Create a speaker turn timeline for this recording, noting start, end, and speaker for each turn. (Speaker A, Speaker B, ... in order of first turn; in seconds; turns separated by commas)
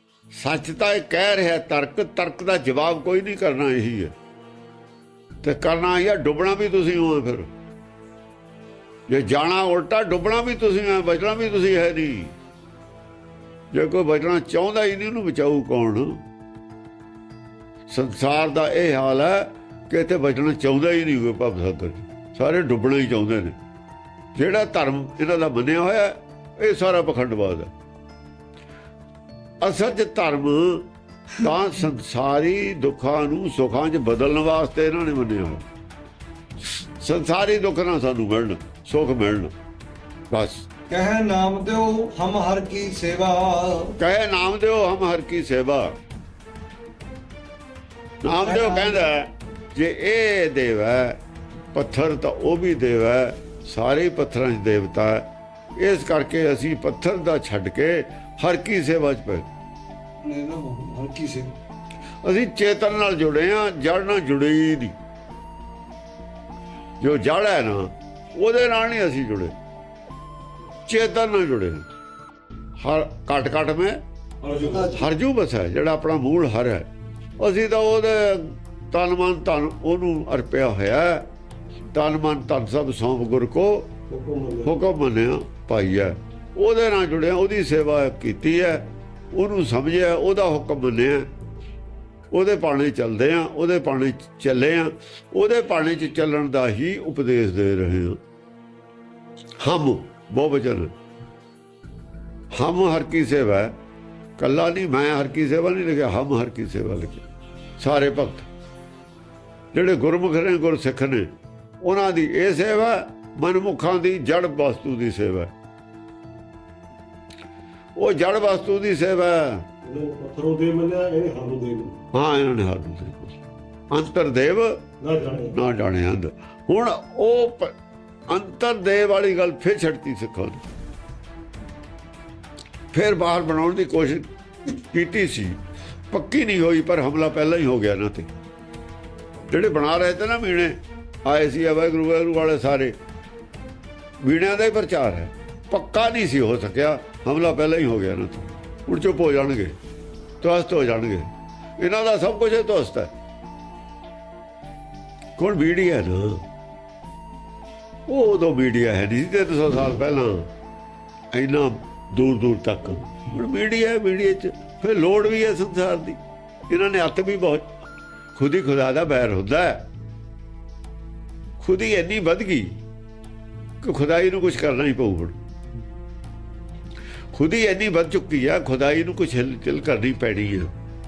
Speaker A: 0.3-4.1, Speaker A: 5.4-7.5, Speaker A: 9.1-12.3, Speaker A: 13.7-16.2, Speaker A: 17.9-23.6, Speaker A: 24.4-27.7, Speaker A: 29.6-35.6, Speaker A: 36.7-39.5, Speaker A: 40.3-40.7, Speaker B: 40.9-44.0, Speaker A: 44.0-46.0, Speaker A: 48.2-51.2, Speaker B: 48.4-49.1, Speaker A: 51.7-59.5, Speaker B: 60.2-61.5, Speaker A: 62.2-65.0, Speaker A: 67.0-69.5, Speaker A: 70.9-71.9, Speaker A: 72.8-74.0, Speaker C: 74.4-75.1, Speaker A: 74.8-81.2, Speaker A: 81.9-83.9, Speaker C: 84.1-84.8, Speaker A: 84.7-91.3, Speaker A: 92.3-98.2, Speaker A: 99.6-100.9, Speaker A: 102.5-103.8, Speaker A: 104.4-107.2, Speaker A: 107.8-108.5, Speaker A: 109.7-111.3, Speaker A: 111.8-115.5, Speaker A: 118.0-119.7, Speaker C: 119.8-122.0, Speaker A: 122.1-123.3, Speaker A: 123.9-124.8, Speaker C: 125.0-125.6, Speaker A: 125.4-127.7, Speaker A: 128.3-130.6, Speaker A: 132.9-135.6, Speaker A: 136.1-138.3, Speaker A: 139.5-142.9, Speaker A: 144.2-149.8, Speaker A: 150.4-153.1, Speaker A: 155.4-156.4, Speaker A: 158.1-160.5, Speaker A: 161.3-167.7, Speaker A: 168.3-169.9, Speaker A: 171.6-172.8, Speaker A: 173.8-175.4, Speaker A: 177.3-180.7